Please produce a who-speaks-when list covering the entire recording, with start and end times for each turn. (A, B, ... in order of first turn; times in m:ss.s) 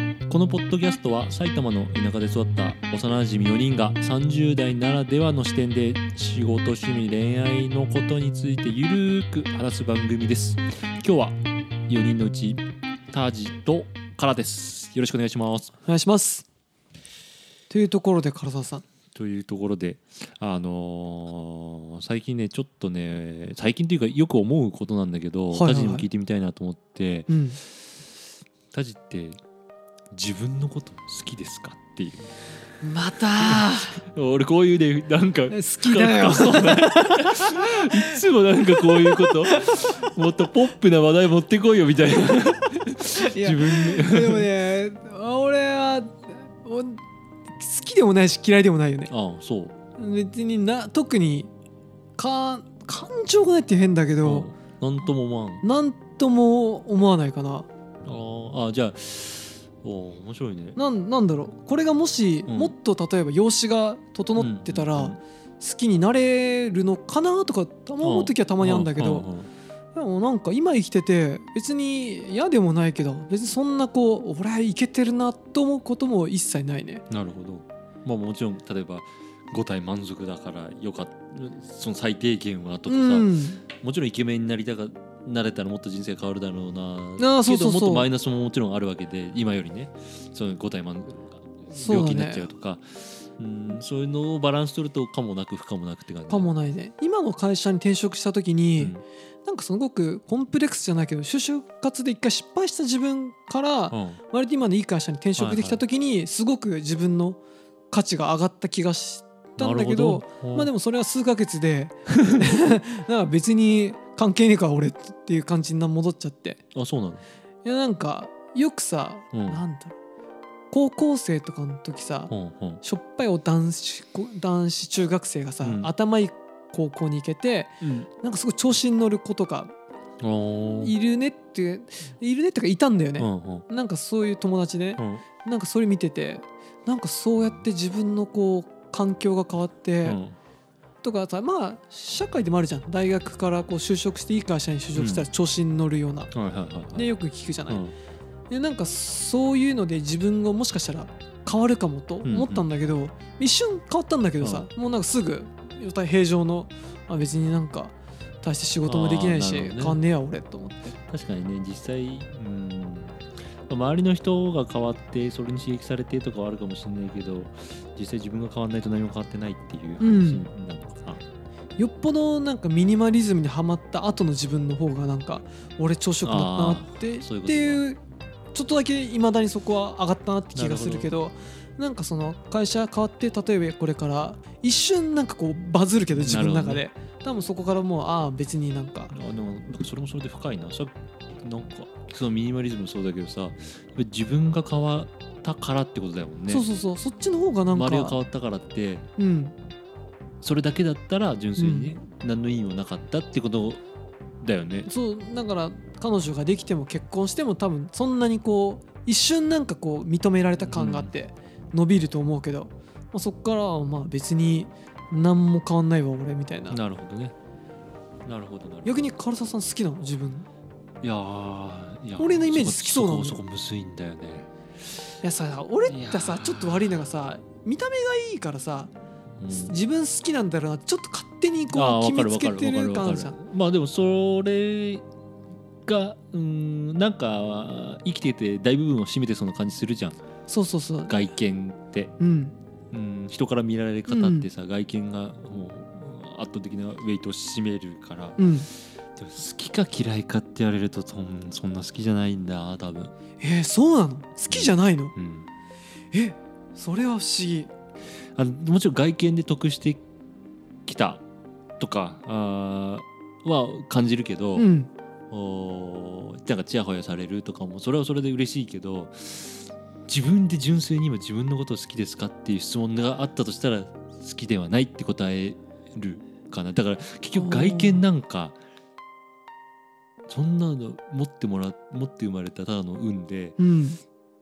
0:00.3-0:11.4 A
0:11.9-0:15.7 A
0:15.8-0:16.4 B
0:17.7-0:18.8 B
0:19.1-0:27.3 A
0:25.5-0:26.0 B
0:27.3-0:27.6 B
0:28.7-0:29.4 A
0:30.1-0:32.3 A
0:32.8-0:34.0 B
0:33.4-0:44.5 A
0:35.5-0:38.1 B
0:38.8-0:40.0 B
0:43.1-0:47.0 B
0:47.6-0:49.1 B
0:49.1-0:49.7 A
0:50.0-0:51.5 B
0:52.2-0:54.5 B
0:54.2-0:55.6 A
0:55.6-0:57.7 B
0:58.0-1:00.8 A
1:00.8-1:09.3 B
1:02.4-1:02.7 A
1:04.4-1:05.2 A
1:08.0-1:09.5 A
1:10.0-1:17.0 B
1:17.1-1:36.5 A
1:22.9-1:23.6 B
1:27.2-1:28.1 B
1:31.7-1:32.5 B
1:36.3-1:47.4 B
1:38.8-1:39.0 A
1:43.9-1:44.2 A
1:45.4-1:45.8 A
1:47.9-1:56.6 B
1:49.6-1:50.7 A
1:56.8-1:57.2 A
1:57.6-2:00.0 B
1:59.3-1:59.6 A
2:00.7-2:09.7 B
2:02.3-2:02.8 A
2:05.6-2:05.9 A
2:07.8-2:08.1 A
2:10.2-2:10.9 A
2:10.8-2:20.2 B
2:13.2-2:13.7 A
2:15.0-2:15.2 A
2:20.0-2:20.4 A
2:21.0-2:26.3 B
2:24.9-2:25.3 A
2:26.3-2:27.1 A
2:26.9-2:27.8 B
2:27.7-2:27.9 A
2:28.5-2:41.0 B
2:32.2-2:32.7 A
2:34.4-2:34.7 A
2:38.8-2:40.0 A
2:41.1-2:51.2 A
2:50.0-2:50.5 B
2:51.8-2:58.0 B
2:56.2-2:57.8 A
2:58.5-3:09.1 B
3:00.5-3:01.2 A
3:06.1-3:06.8 A
3:09.1-3:16.6 A
3:16.5-3:18.2 B
3:17.7-3:19.0 A
3:19.2-3:19.6 B
3:20.4-3:23.8 A
3:21.6-3:22.0 B
3:24.4-3:24.9 A
3:24.8-3:36.8 B
3:30.7-3:31.1 A
3:36.7-3:37.3 A
3:38.2-3:39.0 A
3:38.8-3:40.5 B
3:41.0-3:44.5 A
3:42.2-3:43.4 B
3:45.2-3:48.9 B
3:45.9-3:47.1 A
3:49.4-3:49.8 A
3:49.5-3:53.4 B
3:51.7-3:55.0 A
3:55.8-4:00.2 A
4:00.5-4:01.1 B
4:01.1-4:02.1 A
4:02.2-4:02.6 B
4:02.9-4:13.1 A
4:04.1-4:04.5 B
4:08.4-4:08.7 B
4:13.4-4:15.1 B
4:14.5-4:15.5 A
4:16.1-4:17.7 B
4:18.4-4:20.0 A
4:20.9-4:21.2 A
4:21.8-4:24.7 A
4:24.6-4:24.9 B
4:25.3-4:38.6 A
4:37.4-4:38.1 B
4:40.3-4:43.6 A
4:43.6-4:44.0 B